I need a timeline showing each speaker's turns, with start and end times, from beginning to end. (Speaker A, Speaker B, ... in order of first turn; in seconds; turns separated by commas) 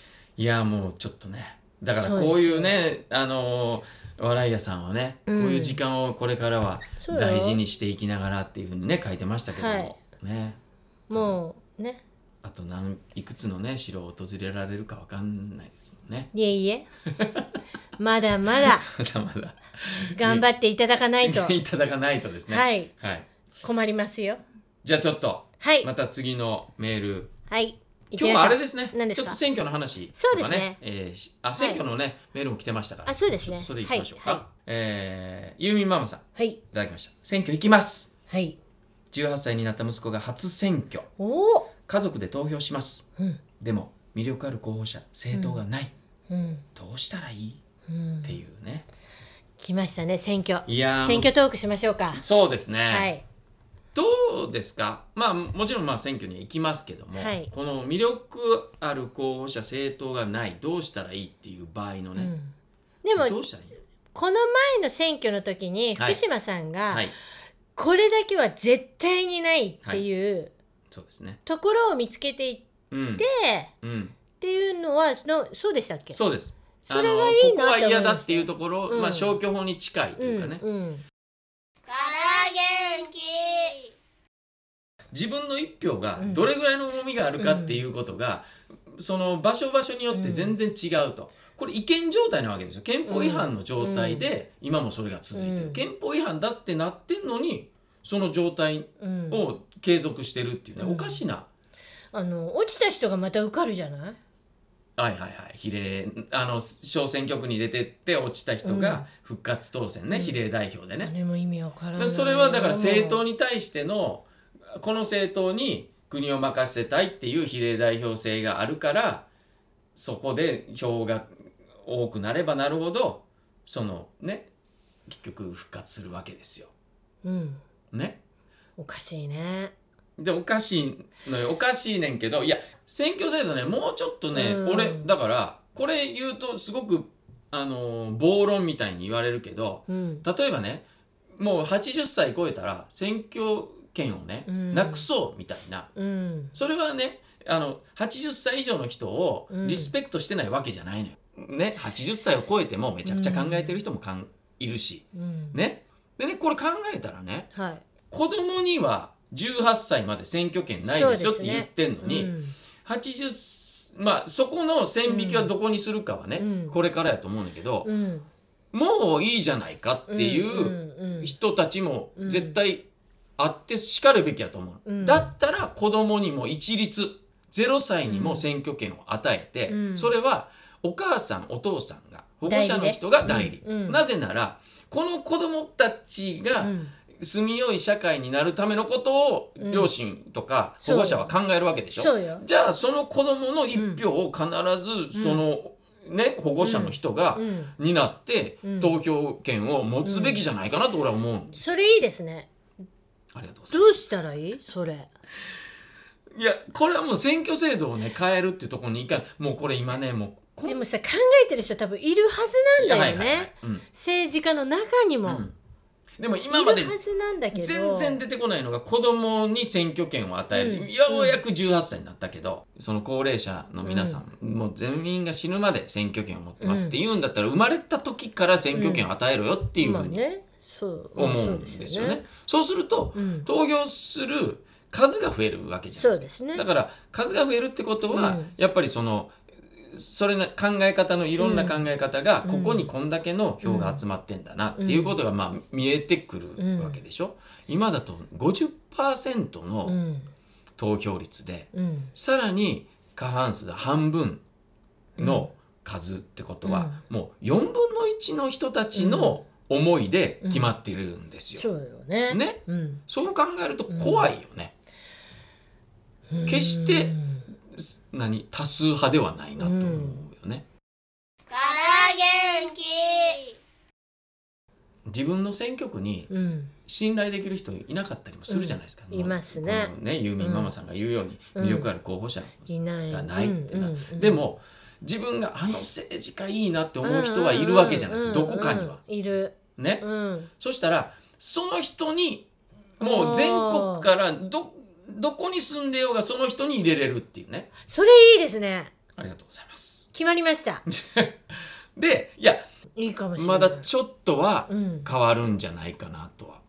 Speaker A: 0.4-10.6, Speaker B: 1.9-2.7, Speaker B: 5.3-5.8, Speaker B: 7.0-7.6, Speaker B: 9.5-9.9, Speaker B: 11.1-12.0, Speaker A: 11.1-11.4, Speaker A: 12.4-16.3, Speaker B: 16.3-16.9, Speaker A: 17.1-17.5, Speaker B: 18.0-18.9, Speaker A: 18.6-20.5, Speaker B: 20.0-21.6, Speaker A: 21.2-23.3, Speaker B: 22.5-22.9, Speaker B: 23.6-24.4, Speaker A: 24.8-27.3, Speaker B: 25.6-25.9, Speaker B: 27.5-29.4, Speaker A: 28.1-38.1, Speaker B: 30.1-30.8, Speaker B: 33.0-34.4, Speaker B: 38.3-38.6, Speaker A: 39.1-41.1, Speaker B: 41.2-41.7, Speaker A: 41.8-43.0, Speaker A: 43.6-45.9, Speaker B: 45.3-45.6, Speaker B: 46.3-46.6, Speaker A: 46.7-47.6, Speaker B: 47.9-48.4, Speaker A: 48.2-48.8, Speaker B: 49.6-52.2, Speaker A: 50.6-51.3, Speaker A: 52.1-53.1, Speaker B: 52.9-53.2, Speaker A: 53.9-62.3, Speaker B: 57.1-57.5, Speaker B: 62.1-63.5, Speaker A: 63.1-63.7, Speaker B: 64.1-67.1, Speaker B: 67.8-70.5, Speaker A: 70.9-71.4, Speaker B: 71.5-72.7, Speaker A: 72.9-73.2, Speaker B: 73.2-73.7, Speaker A: 73.8-74.2, Speaker B: 74.4-76.2, Speaker A: 76.1-80.6, Speaker B: 76.8-79.4, Speaker B: 80.2-81.0, Speaker C: 81.8-83.9, Speaker A: 85.1-101.5, Speaker B: 86.2-86.5, Speaker B: 87.4-87.8, Speaker B: 90.1-90.5, Speaker B: 93.1-94.2, Speaker B: 95.3-95.8, Speaker B: 99.0-99.4, Speaker B: 100.8-101.2, Speaker B: 102.1-104.2, Speaker A: 105.0-111.1, Speaker B: 108.6-109.0, Speaker B: 110.1-110.4, Speaker B: 111.0-113.2, Speaker A: 112.0-119.2, Speaker A: 119.9-121.3, Speaker A: 121.8-124.5, Speaker A: 125.0-126.7, Speaker B: 127.2-127.6, Speaker A: 127.9-128.2, Speaker B: 128.8-129.7, Speaker A: 130.2-140.8, Speaker B: 134.3-135.1, Speaker B: 139.9-140.2, Speaker A: 141.4-145.9, Speaker B: 144.5-145.1, Speaker B: 145.9-146.5, Speaker A: 146.5-157.5, Speaker B: 149.5-149.9, Speaker B: 153.0-153.8, Speaker B: 155.1-155.6, Speaker B: 157.5-157.8, Speaker A: 158.1-162.3, Speaker B: 160.8-162.6, Speaker A: 162.8-167.9, Speaker B: 165.1-165.5, Speaker B: 166.4-166.8, Speaker B: 167.8-168.3, Speaker A: 168.7-172.8, Speaker B: 170.1-171.3, Speaker B: 172.2-172.6, Speaker A: 173.4-201.7, Speaker B: 174.8-175.3, Speaker B: 178.1-178.4, Speaker B: 179.7-180.1, Speaker B: 182.4-184.0, Speaker B: 186.6-186.9, Speaker B: 189.6-189.9, Speaker B: 190.8-191.3, Speaker B: 191.9-192.4, Speaker B: 193.7-194.0, Speaker B: 195.1-195.4, Speaker B: 196.6-197.7, Speaker B: 198.6-198.9, Speaker B: 200.0-200.4, Speaker B: 201.6-202.5, Speaker A: 203.3-204.1, Speaker B: 203.7-205.1, Speaker A: 206.3-210.8, Speaker B: 210.6-215.4, Speaker A: 212.8-213.8, Speaker A: 215.2-215.5, Speaker A: 216.2-216.9, Speaker B: 216.5-218.2, Speaker A: 217.5-230.2, Speaker B: 220.5-221.4, Speaker B: 223.8-224.2, Speaker B: 226.6-227.0, Speaker B: 228.7-229.1, Speaker B: 229.8-232.2, Speaker A: 231.2-250.0, Speaker B: 233.1-233.5, Speaker B: 235.9-236.6, Speaker B: 238.1-238.5, Speaker B: 241.4-241.8, Speaker B: 242.4-242.9, Speaker B: 243.6-244.0, Speaker B: 244.8-245.2, Speaker B: 246.6-247.0, Speaker B: 249.8-250.3, Speaker A: 250.8-254.4, Speaker B: 251.7-252.1, Speaker B: 255.2-255.5, Speaker A: 255.2-261.7, Speaker B: 256.6-257.0, Speaker B: 258.9-259.4, Speaker B: 260.4-260.7, Speaker B: 261.6-263.0, Speaker A: 262.3-264.7, Speaker B: 263.9-264.3, Speaker B: 266.3-267.4, Speaker A: 266.4-267.1, Speaker A: 267.7-270.6, Speaker B: 269.6-270.2, Speaker C: 271.5-273.6, Speaker A: 275.1-276.3, Speaker B: 276.3-276.7, Speaker A: 276.9-289.0, Speaker B: 278.5-280.7, Speaker B: 281.5-281.9, Speaker B: 282.7-284.4, Speaker B: 287.0-290.5, Speaker A: 289.8-292.5, Speaker A: 293.0-297.7, Speaker B: 293.0-294.1, Speaker B: 297.9-298.9, Speaker A: 299.1-300.1, Speaker B: 300.1-300.8, Speaker A: 300.9-302.6, Speaker B: 303.0-303.9, Speaker A: 303.4-306.6, Speaker B: 304.7-305.1